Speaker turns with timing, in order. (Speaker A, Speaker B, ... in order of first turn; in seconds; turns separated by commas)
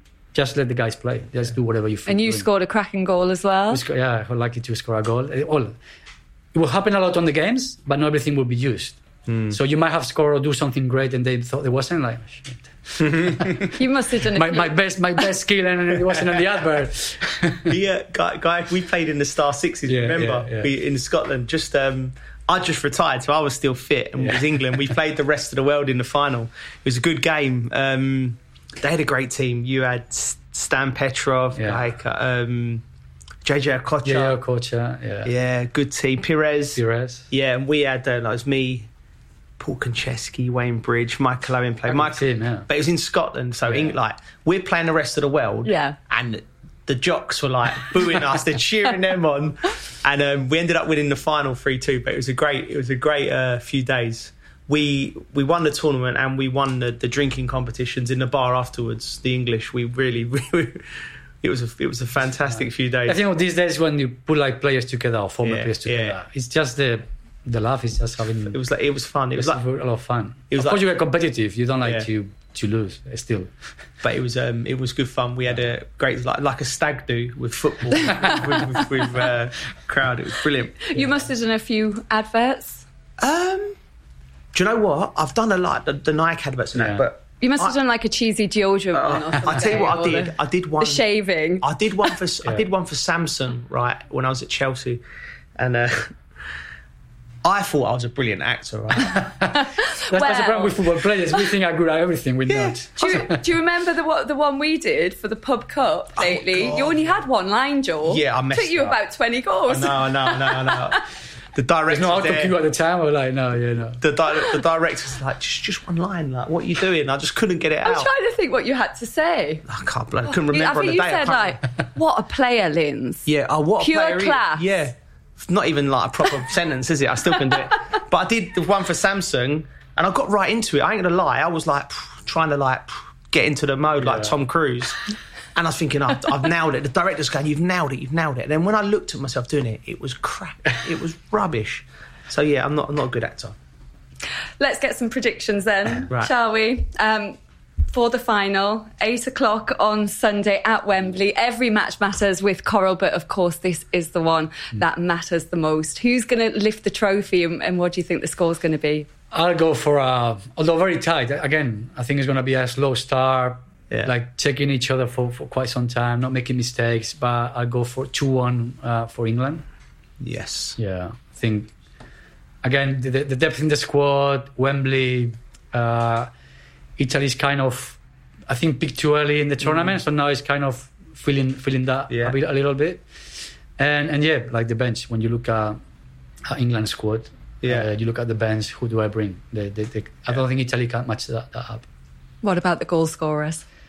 Speaker A: 0.3-2.5, Speaker B: 2.1-3.8, Speaker A: 3.7-5.7, Speaker A: 6.5-13.7, Speaker C: 9.3-9.6, Speaker C: 13.0-13.7, Speaker B: 13.7-14.7, Speaker A: 14.3-17.8, Speaker C: 17.7-32.8, Speaker A: 19.9-20.7, Speaker A: 31.6-31.8, Speaker C: 33.5-34.4, Speaker A: 34.0-35.3, Speaker C: 35.2-36.8, Speaker A: 36.8-37.3, Speaker C: 37.3-38.9, Speaker C: 39.6-63.2, Speaker A: 41.9-42.7, Speaker A: 43.7-43.9, Speaker B: 45.6-46.0, Speaker A: 62.5-68.6, Speaker C: 65.4-66.2, Speaker C: 68.5-69.6, Speaker A: 69.3-73.5, Speaker C: 70.5-70.8, Speaker C: 74.0-81.2, Speaker B: 80.8-82.8, Speaker C: 83.2-83.8, Speaker C: 84.5-87.8, Speaker A: 86.8-87.0, Speaker B: 87.4-91.7, Speaker C: 88.9-91.1, Speaker C: 91.6-95.0, Speaker C: 95.6-96.2, Speaker C: 97.4-99.2, Speaker A: 99.2-103.4, Speaker B: 99.5-101.4, Speaker C: 102.5-102.8, Speaker B: 103.0-111.0, Speaker C: 106.2-107.0, Speaker C: 108.1-109.0, Speaker C: 109.7-111.0, Speaker C: 111.5-112.5, Speaker A: 111.9-114.0, Speaker C: 114.0-118.1, Speaker B: 117.8-119.6, Speaker C: 119.7-121.6, Speaker B: 120.3-123.3, Speaker C: 123.3-143.6, Speaker B: 123.8-124.7, Speaker A: 134.0-134.3, Speaker B: 144.6-147.4, Speaker B: 147.9-159.1, Speaker A: 159.3-169.6, Speaker C: 170.2-170.8, Speaker A: 170.8-171.7, Speaker A: 172.6-176.3, Speaker A: 177.0-183.0, Speaker C: 179.6-180.0, Speaker C: 182.1-182.4, Speaker A: 183.8-185.8, Speaker A: 186.5-191.9, Speaker C: 187.6-187.9, Speaker B: 192.4-193.6